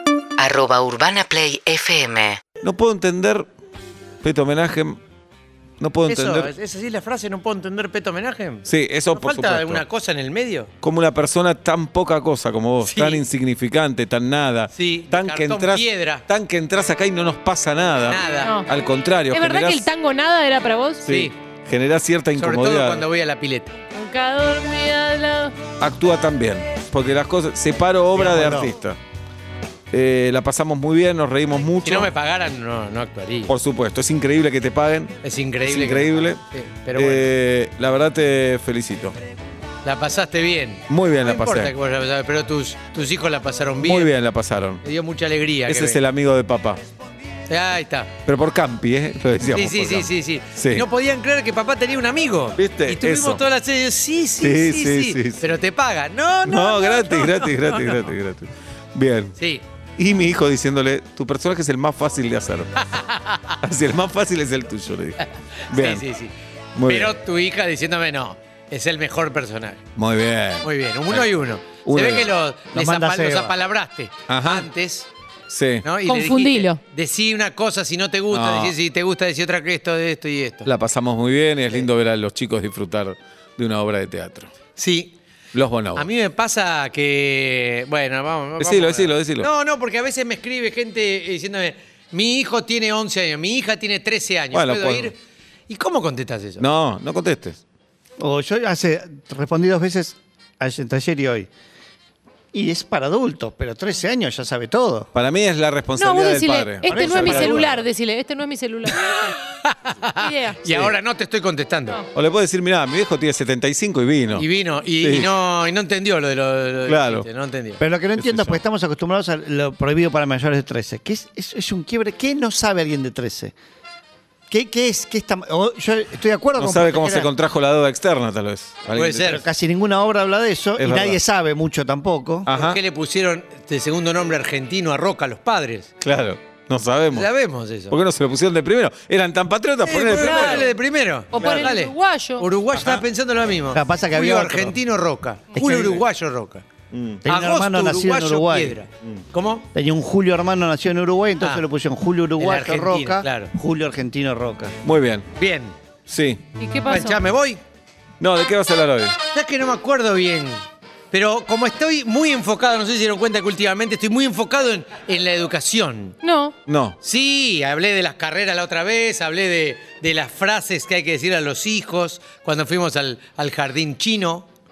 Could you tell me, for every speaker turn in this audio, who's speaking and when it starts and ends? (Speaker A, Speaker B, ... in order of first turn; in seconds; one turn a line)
Speaker A: 0.4-2.4
Speaker B: 2.6-3.5
Speaker B: 4.2-5.0
Speaker B: 5.8-6.5
Speaker C: 6.1-10.7
Speaker B: 8.7-9.8
Speaker B: 10.8-19.9
Speaker C: 12.8-13.2
Speaker C: 14.7-16.2
Speaker C: 18.1-18.6
Speaker D: 18.4-18.7
Speaker D: 19.3-21.1
Speaker B: 21.0-23.1
Speaker C: 21.1-21.3
Speaker C: 22.4-23.8
Speaker D: 23.9-25.6
Speaker B: 25.8-29.0
Speaker E: 28.1-28.7
Speaker B: 29.9-32.1
Speaker C: 31.8-33.5
Speaker B: 33.5-36.4
Speaker C: 35.2-37.3
Speaker B: 37.0-39.2
Speaker C: 39.8-44.1
Speaker B: 40.9-41.7
Speaker B: 43.8-44.8
Speaker C: 44.8-46.0
Speaker B: 45.7-46.8
Speaker C: 47.5-48.1
Speaker B: 48.2-50.9
Speaker C: 49.5-58.0
Speaker B: 52.6-53.4
Speaker B: 54.4-55.5
Speaker B: 56.4-59.4
Speaker C: 59.4-59.6
Speaker B: 60.0-62.9
Speaker C: 62.8-63.6
Speaker B: 63.6-65.2
Speaker C: 65.2-66.3
Speaker B: 65.7-66.0
Speaker B: 66.8-67.2
Speaker C: 66.8-69.8
Speaker B: 70.0-71.3
Speaker C: 70.6-75.1
Speaker B: 71.8-72.3
Speaker E: 72.7-73.6
Speaker B: 74.3-74.7
Speaker B: 75.5-75.9
Speaker C: 75.8-80.7
Speaker D: 76.1-76.8
Speaker B: 78.3-78.8
Speaker B: 80.7-84.5
Speaker C: 84.8-85.2
Speaker B: 85.5-86.1
Speaker C: 86.0-95.2
Speaker B: 88.6-89.5
Speaker B: 94.5-95.1
Speaker C: 95.7-96.7
Speaker B: 96.6-97.6
Speaker E: 98.2-101.5
Speaker E: 102.5-105.1
Speaker B: 105.1-107.8
Speaker D: 106.0-109.4
Speaker E: 106.9-107.8
Speaker C: 109.0-112.0
Speaker D: 110.1-110.6
Speaker B: 110.7-110.9
Speaker B: 112.1-114.5
Speaker C: 114.3-117.8
Speaker B: 115.0-115.3
Speaker B: 116.9-117.3
Speaker E: 117.8-123.5
Speaker B: 118.2-118.6
Speaker E: 124.5-127.3
Speaker B: 126.6-129.4
Speaker C: 128.9-129.4
Speaker E: 129.2-132.5
Speaker B: 130.8-131.2
Speaker B: 132.5-132.8
Speaker C: 132.5-135.9
Speaker B: 136.0-137.3
Speaker C: 137.1-137.9
Speaker B: 137.9-140.7
Speaker C: 139.8-146.7
Speaker D: 140.1-140.7
Speaker D: 141.3-142.5
Speaker B: 141.4-141.8
Speaker B: 142.7-143.0
Speaker E: 143.7-144.8
Speaker E: 145.6-146.0
Speaker B: 146.9-147.2
Speaker E: 147.2-148.8
Speaker C: 147.3-149.7
Speaker E: 149.7-154.8
Speaker C: 152.4-153.5
Speaker B: 154.8-155.3
Speaker C: 155.4-155.8
Speaker B: 156.1-156.4
Speaker D: 156.6-157.2
Speaker C: 156.9-157.6
Speaker B: 158.2-159.2
Speaker C: 159.3-166.2
Speaker D: 166.2-166.6
Speaker B: 166.7-167.0
Speaker C: 167.0-174.5